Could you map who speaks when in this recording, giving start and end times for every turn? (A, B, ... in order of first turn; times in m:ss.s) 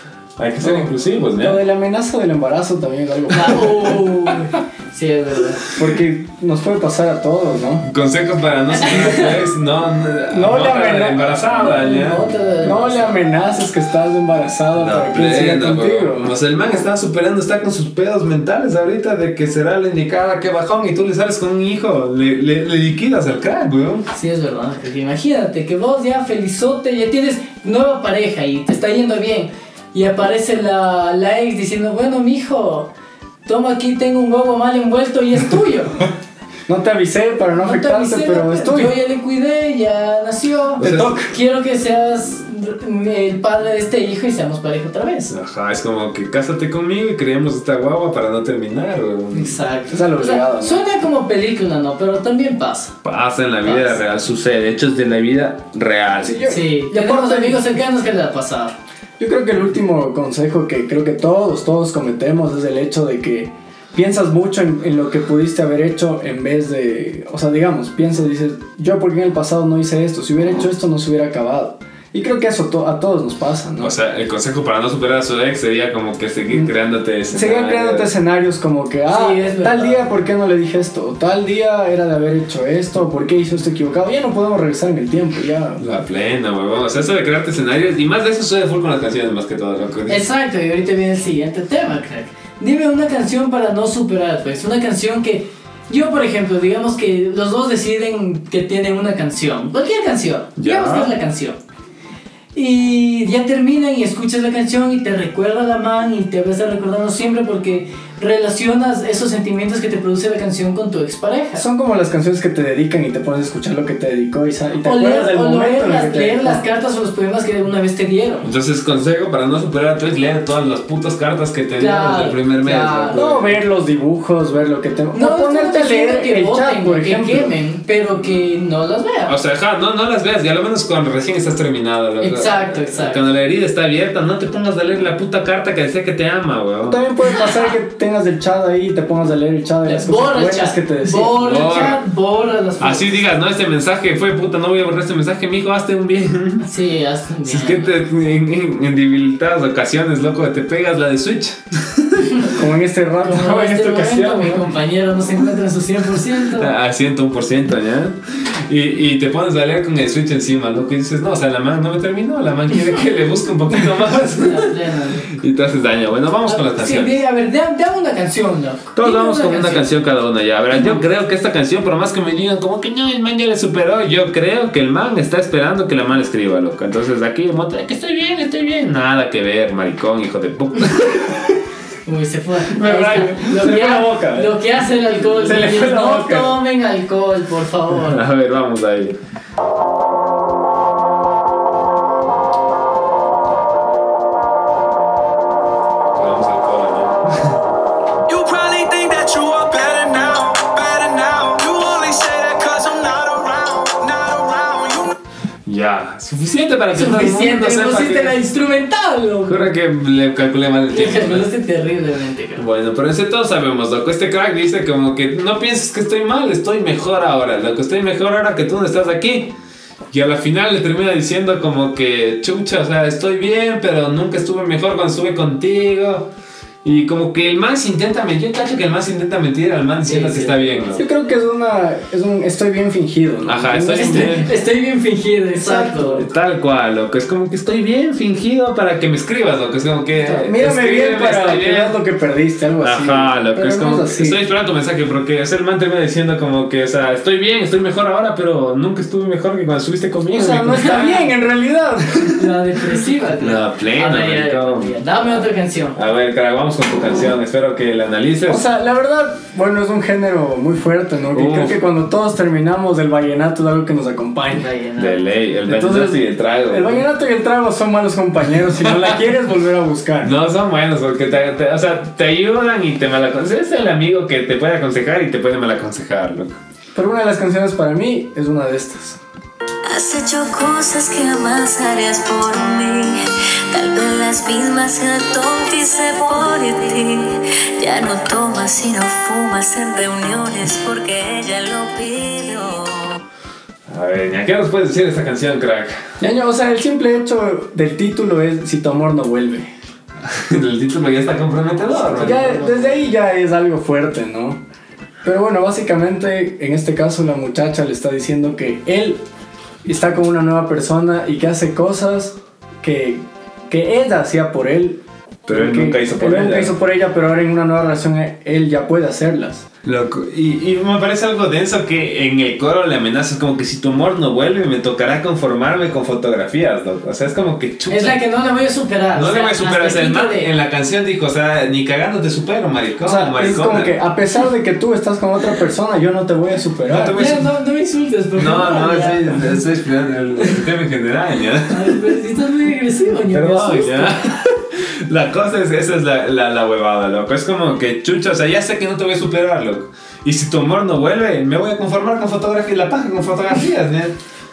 0:00.4-0:01.6 A
0:00.6-0:04.0 B
0:03.3-0:05.6 C
0:05.8-0:07.9 B
0:07.8-0:12.3 A
0:08.8-0:09.4 C
0:10.3-0:11.5 B
0:11.6-0:13.3 C
0:12.6-0:16.3 B
0:14.8-0:24.1 A
0:24.1-0:32.9 C
0:33.4-0:36.0 C
0:36.7-0:38.9 B
0:37.6-0:45.3 C
0:40.8-0:41.2 A
0:40.8-0:41.3 B
0:45.3-0:49.6 A
0:49.3-0:53.0 C
0:49.9-0:50.8 B
0:53.0-0:56.4 A
0:53.6-0:54.0 C
0:56.2-0:57.6 B
0:56.5-0:58.8 C
0:59.2-1:13.9 B
1:13.8-1:18.1 A
1:17.3-1:25.8 B
1:19.1-1:20.0 C
1:25.8-1:30.2 A
1:30.1-1:41.6 C
1:40.6-1:41.1 A
1:42.5-1:51.6 C
1:51.6-1:56.6 B
1:54.8-1:58.5 C
1:58.4-2:03.6 A
2:01.8-2:03.2 C
2:03.1-2:07.5 B
2:05.1-2:09.4 C
2:09.3-2:17.0 A
2:12.2-2:13.2 C
2:16.9-2:21.4 B
2:19.9-2:23.2 C
2:21.4-2:22.0 A
2:22.8-2:26.6 A
2:26.6-2:27.9 C
2:27.5-2:32.4 A
2:32.5-2:34.7 B
2:33.2-2:36.7 C
2:36.6-2:44.7 A
2:44.4-2:45.3 C
2:45.3-2:47.2 A
2:46.5-2:49.8 C
2:49.0-3:01.6 A
2:50.7-2:51.0 C
3:02.1-3:08.2 C
3:02.8-3:04.6 B
3:02.9-3:03.2 A
3:05.4-3:06.5 B
3:08.1-3:09.2 A
3:16.1-3:17.6 A
3:18.3-3:25.0 D
3:25.7-3:28.4 A
3:26.9-3:29.7 C
3:29.5-3:31.5 A
3:30.9-3:32.6 C
3:32.6-3:39.5 A
3:40.1-3:46.3 A
3:46.8-3:51.1 A
3:50.0-3:51.0 C
3:51.0-3:54.4 B
3:53.4-3:54.5 A
3:53.9-3:56.2 C
3:55.6-3:56.2 B
3:56.1-4:02.0 A
4:00.2-4:04.4 B
4:02.8-4:11.2 A
4:10.3-4:12.5 B
4:10.8-4:11.2 C
4:12.4-4:16.0 C
4:13.4-4:15.0 A
4:16.0-4:18.6 A
4:18.5-4:24.7 B
4:21.3-4:21.8 A
4:24.6-4:25.2 C
4:25.0-4:27.0 A
4:25.7-4:30.3 B
4:30.2-4:36.6 A
4:37.0-4:39.2 B
4:39.9-4:53.2 E
4:53.9-4:56.0 A
4:56.2-4:59.7 B
5:00.2-5:03.0 A
5:02.1-5:04.6 B
5:05.2-5:09.2 B
5:09.8-5:19.7 B
5:15.5-5:16.8 A
5:19.8-5:28.2 A
5:27.9-5:30.5 C
5:29.1-5:34.0 A
5:33.0-5:37.2 B
5:36.9-5:37.5 A
5:37.1-5:39.5 C
5:38.4-5:42.0 A
5:41.7-5:44.2 C
5:43.3-5:54.2 A